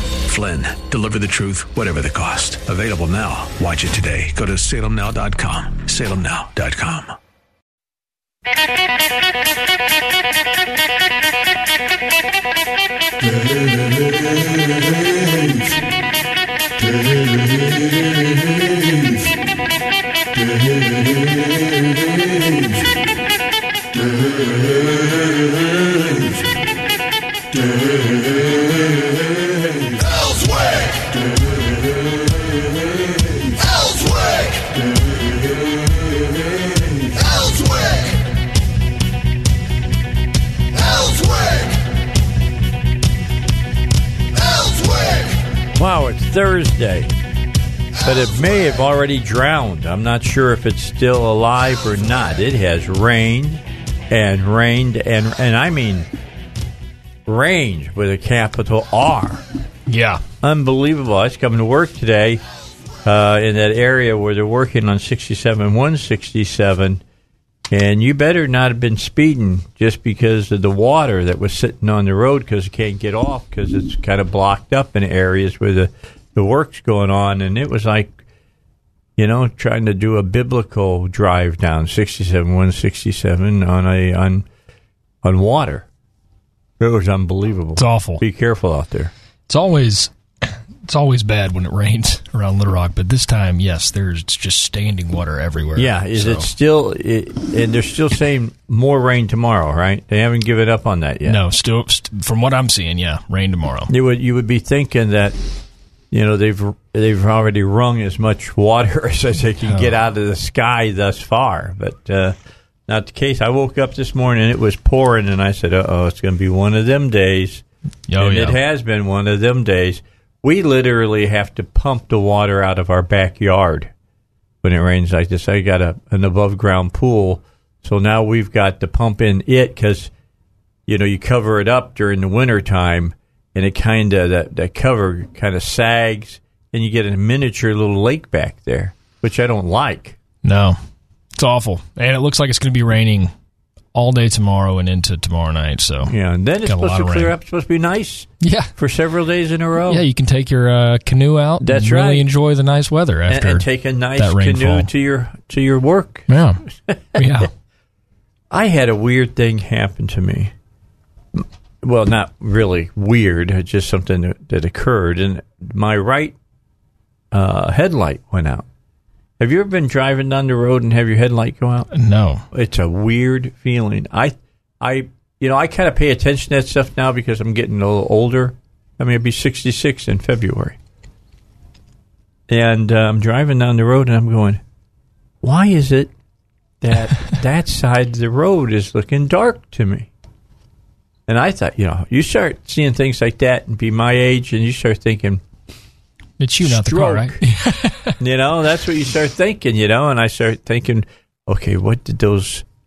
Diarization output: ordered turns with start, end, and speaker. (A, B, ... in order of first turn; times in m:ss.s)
0:00.2-0:07.2 A
0:45.8-0:47.1 B
0:48.0-0:56.1 B
0:57.3-0:59.4 B
0:59.9-1:00.2 C
1:00.4-1:02.4 B
1:03.0-1:07.0 B
1:07.7-1:18.2 B
1:19.2-1:24.5 B
1:25.2-1:25.9 B
1:26.8-1:29.1 B
1:27.8-1:28.2 C
1:29.5-1:36.5 C
1:35.8-1:41.4 B
1:41.3-1:43.9 C
1:43.9-1:45.4 B
1:46.1-1:57.6 B
1:49.7-1:49.9 C
1:58.1-1:58.6 C
1:58.2-2:03.9 B
2:04.6-2:10.1 B
2:10.9-2:20.2 B
2:20.4-2:20.8 C
2:21.4-2:23.3 C
2:23.9-2:26.1 C
2:26.1-2:30.0 B
2:26.6-2:27.3 C
2:28.4-2:28.7 C
2:29.9-2:34.9 C
2:31.6-2:32.3 B
2:33.3-2:37.5 B
2:36.3-2:37.5 C
2:38.5-2:40.5 B
2:41.4-2:46.4 B
2:47.3-2:48.6 B
2:49.4-2:51.9 B
2:51.9-2:52.4 C
2:52.5-3:00.8 B
3:02.5-3:04.6 B
3:05.4-3:06.1 B
3:06.8-3:10.1 B
3:11.3-3:15.4 B
3:16.4-3:18.2 C
3:16.6-3:17.4 B
3:18.2-3:22.6 B